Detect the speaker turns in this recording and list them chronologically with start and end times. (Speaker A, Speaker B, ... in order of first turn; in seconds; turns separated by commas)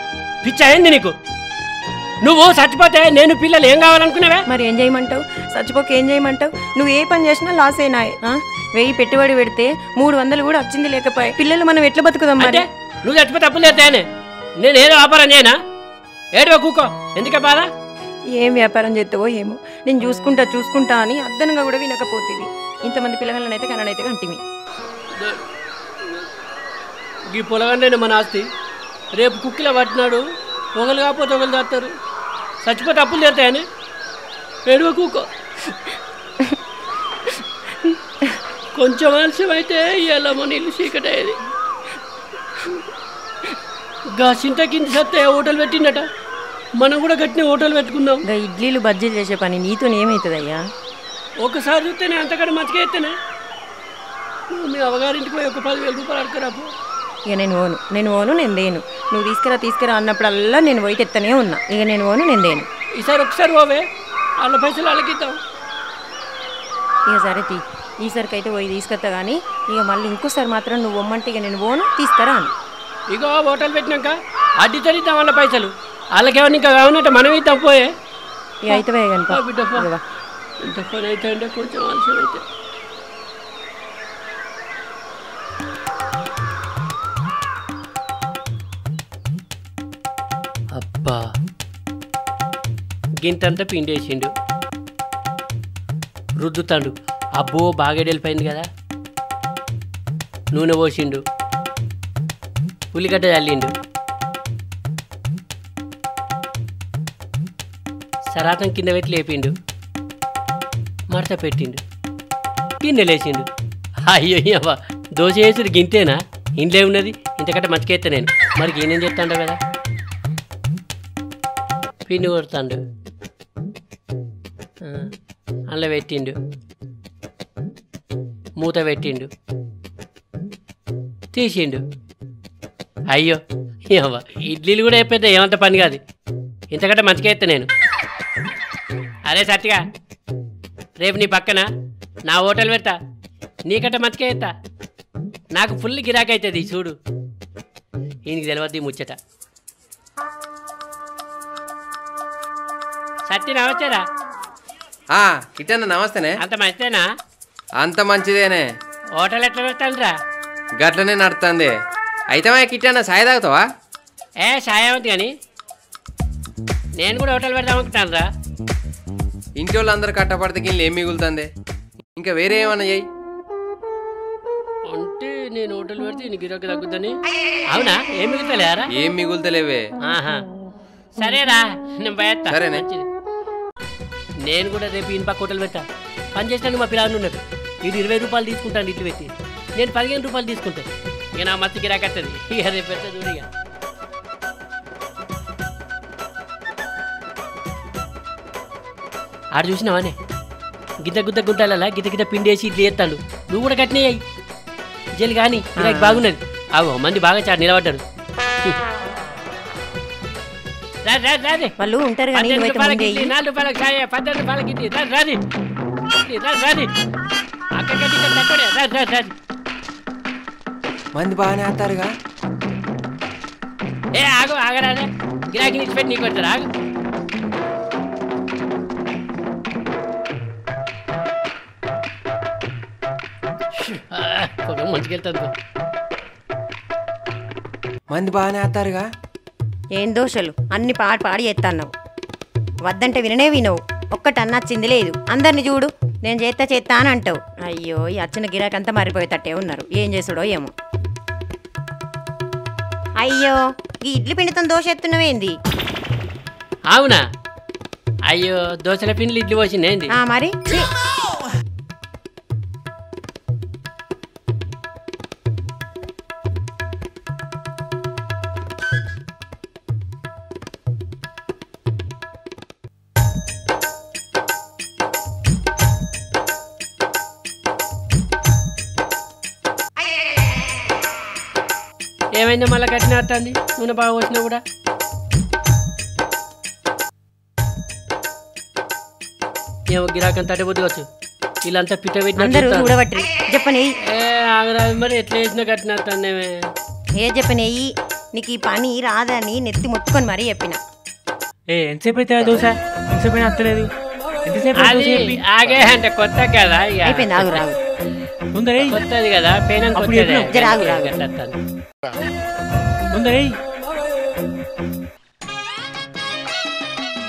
Speaker A: 0.4-1.1, Speaker A: 2.2-4.4, Speaker B: 4.5-12.6, Speaker A: 12.4-14.0, Speaker A: 14.6-15.6, Speaker A: 16.4-17.7, Speaker B: 18.3-24.4, Speaker A: 25.2-25.5, Speaker A: 27.3-28.5, Speaker A: 29.1-30.2, Speaker A: 30.8-31.9, Speaker A: 32.6-33.6, Speaker A: 34.7-35.8, Speaker A: 38.7-41.4, Speaker A: 44.1-46.0, Speaker A: 46.8-48.2, Speaker B: 48.3-50.6, Speaker A: 51.4-53.1, Speaker A: 54.5-56.7, Speaker B: 57.3-62.7, Speaker A: 63.0-63.8, Speaker A: 64.4-65.4, Speaker B: 67.1-72.5, Speaker A: 73.1-77.9, Speaker B: 78.7-80.0, Speaker A: 78.7-79.9, Speaker A: 80.6-82.4, Speaker A: 90.7-91.2, Speaker A: 93.2-94.3, Speaker A: 96.4-98.7, Speaker A: 100.5-101.2, Speaker A: 102.9-103.7, Speaker A: 108.3-109.5, Speaker A: 111.1-111.8, Speaker A: 112.8-113.5, Speaker A: 114.0-119.6, Speaker A: 122.0-122.8, Speaker A: 124.8-125.1, Speaker A: 125.7-126.3, Speaker A: 128.6-129.3, Speaker A: 131.3-131.8, Speaker A: 133.1-136.0, Speaker A: 136.7-137.7, Speaker A: 139.3-139.8, Speaker A: 141.0-141.7, Speaker A: 142.3-142.9, Speaker A: 143.7-144.5, Speaker A: 145.5-146.9, Speaker A: 148.3-149.2, Speaker A: 153.3-154.0, Speaker C: 155.1-156.3, Speaker A: 156.4-157.1, Speaker C: 157.8-158.6, Speaker A: 159.2-160.1, Speaker C: 160.8-161.7, Speaker C: 162.3-163.6, Speaker A: 164.4-165.3, Speaker A: 167.0-168.3, Speaker C: 169.6-171.5, Speaker C: 172.2-173.0, Speaker A: 174.9-177.2, Speaker A: 177.7-178.9, Speaker C: 179.0-179.9, Speaker A: 180.0-180.4, Speaker A: 181.2-183.1, Speaker C: 182.5-182.8, Speaker A: 184.4-185.8, Speaker A: 186.3-193.5, Speaker A: 199.5-200.2, Speaker A: 201.0-204.2, Speaker A: 205.2-208.0, Speaker B: 205.8-206.2, Speaker A: 211.0-211.7, Speaker B: 211.8-213.3, Speaker A: 212.3-215.4, Speaker A: 216.1-216.9, Speaker A: 217.8-219.3, Speaker C: 221.2-222.1, Speaker A: 224.1-226.7, Speaker A: 233.7-235.5, Speaker C: 238.1-239.1, Speaker B: 239.9-241.9, Speaker B: 242.8-250.7, Speaker B: 253.2-255.6, Speaker A: 256.9-257.2, Speaker A: 258.3-260.1, Speaker B: 260.1-260.9, Speaker A: 282.4-284.6, Speaker A: 289.9-291.1, Speaker A: 291.6-292.9, Speaker B: 292.4-293.9, Speaker A: 294.1-296.7, Speaker B: 297.2-300.8, Speaker D: 301.7-303.9, Speaker D: 304.4-305.4, Speaker A: 304.8-307.6, Speaker B: 307.0-307.8, Speaker D: 308.5-308.9, Speaker A: 308.9-311.6, Speaker D: 309.9-310.5, Speaker B: 310.5-311.1, Speaker D: 313.1-313.5